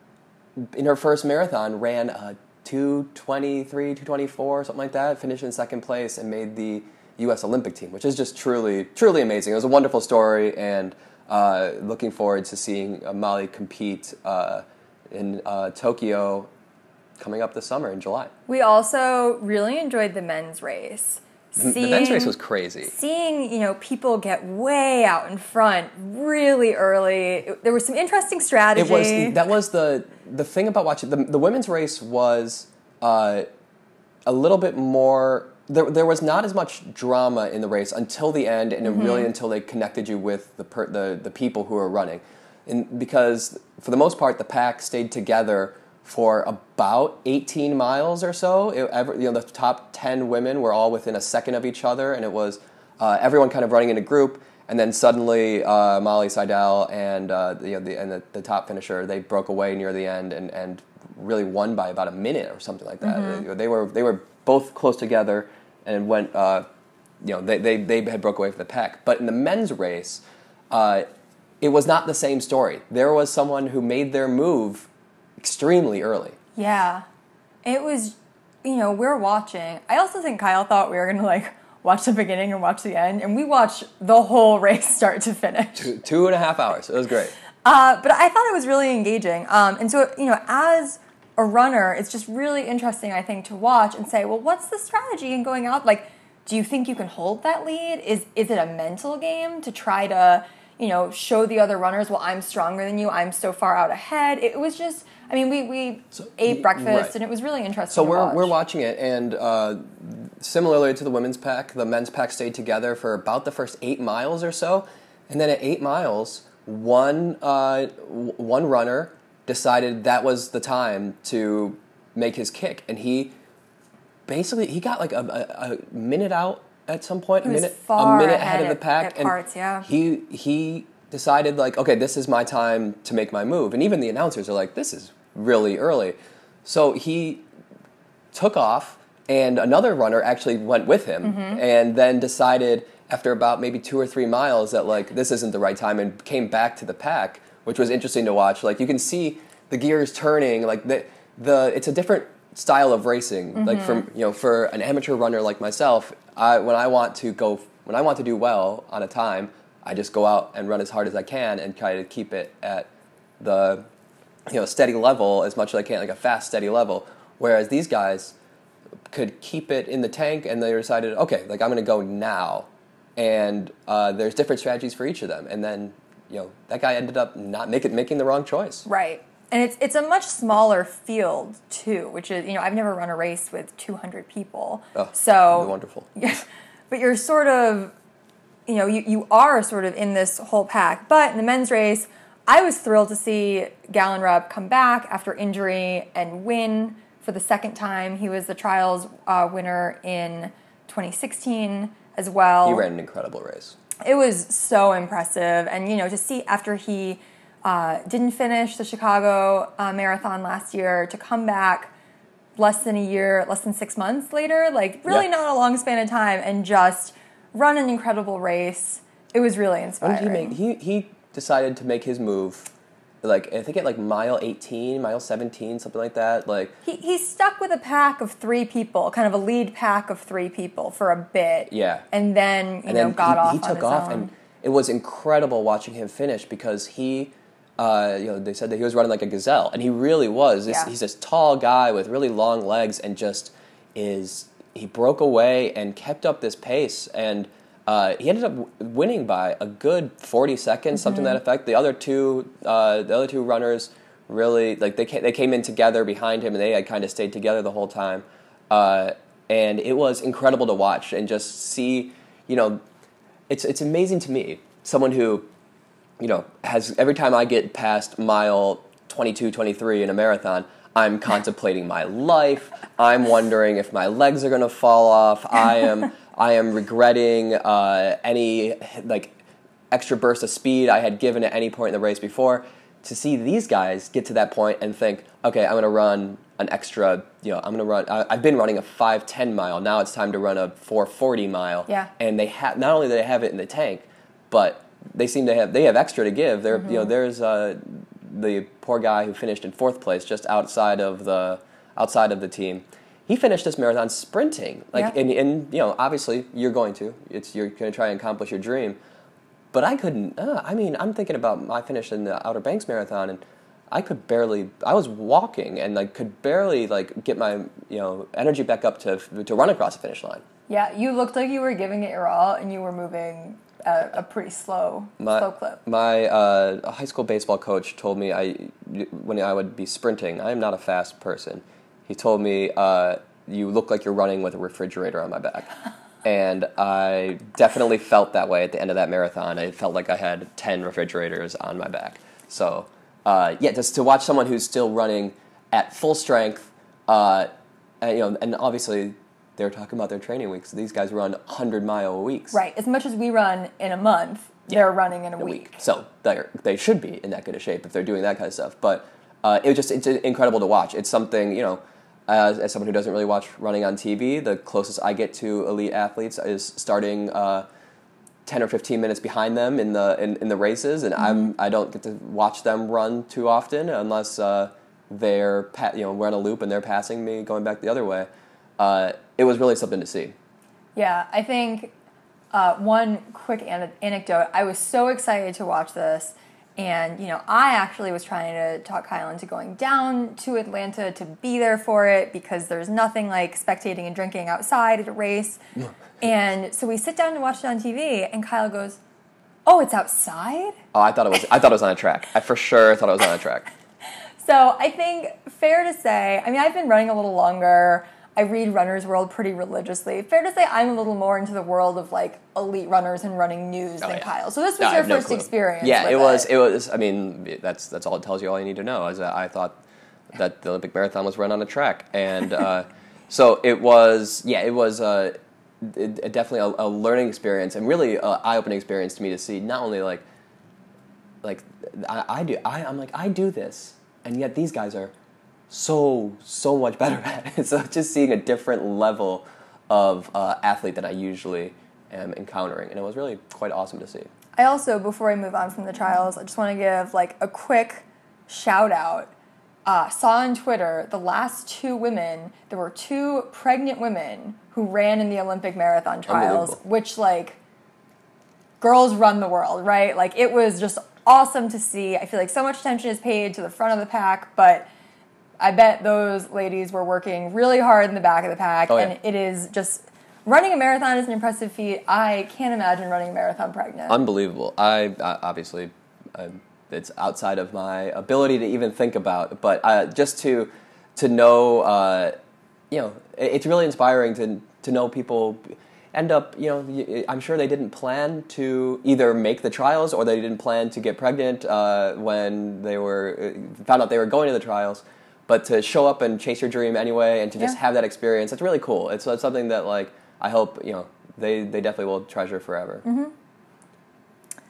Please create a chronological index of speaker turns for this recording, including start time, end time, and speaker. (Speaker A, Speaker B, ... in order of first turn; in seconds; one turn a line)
Speaker A: 0.7-16.5
Speaker A: 17.2-18.3
Speaker B: 18.5-29.4
Speaker A: 21.6-22.9
Speaker A: 28.8-33.5
Speaker A: 34.3-66.7
Speaker B: 38.9-39.3
Speaker B: 63.0-63.5
Speaker A: 67.2-71.1
Speaker A: 71.6-74.9
Speaker A: 75.4-76.4
Speaker B: 76.6-77.0
Speaker B: 77.7-85.9
Speaker A: 85.8-87.3
Speaker B: 87.6-108.5
Speaker A: 106.2-107.1
Speaker A: 107.9-123.3
Speaker A: 124.3-137.4
Speaker B: 127.4-129.9
Speaker A: 138.3-162.9
Speaker B: 141.2-141.6
Speaker B: 153.6-154.0
Speaker A: 163.4-163.8
Speaker A: 164.5-168.3
Speaker A: 169.1-178.9
Speaker B: 178.9-187.9
Speaker A: 184.9-186.1
Speaker B: 188.7-202.9
Speaker A: 202.6-203.8
Speaker B: 204.0-211.9
Speaker B: 212.6-220.6
Speaker A: 220.0-222.7
Speaker A: 223.2-226.7
Speaker B: 226.8-234.3
Speaker A: 231.7-232.1
Speaker A: 232.9-262.8
Speaker B: 251.1-251.4
Speaker A: 263.5-265.5
Speaker A: 266.2-279.4
Speaker A: 279.9-309.0
Speaker B: 296.7-297.1
Speaker A: 309.7-320.4
Speaker B: 320.7-325.8
Speaker A: 325.2-335.7
Speaker A: 336.2-347.5
Speaker A: 348.0-352.6
Speaker B: 352.5-355.8
Speaker A: 355.4-367.7
Speaker A: 368.5-380.3
Speaker B: 371.2-371.5
Speaker B: 380.9-381.9
Speaker B: 382.5-395.6
Speaker B: 396.2-399.0
Speaker B: 399.7-400.8
Speaker A: 400.9-403.7
Speaker B: 404.4-416.5
Speaker A: 414.0-419.8
Speaker A: 420.3-430.2
Speaker A: 431.4-435.1
Speaker A: 435.7-444.3
Speaker B: 444.6-449.3
Speaker B: 449.9-457.6
Speaker A: 456.3-456.8
Speaker B: 458.8-464.9
Speaker B: 465.6-474.2
Speaker A: 468.9-469.1
Speaker A: 474.1-482.4
Speaker A: 482.9-503.1
Speaker B: 503.1-503.3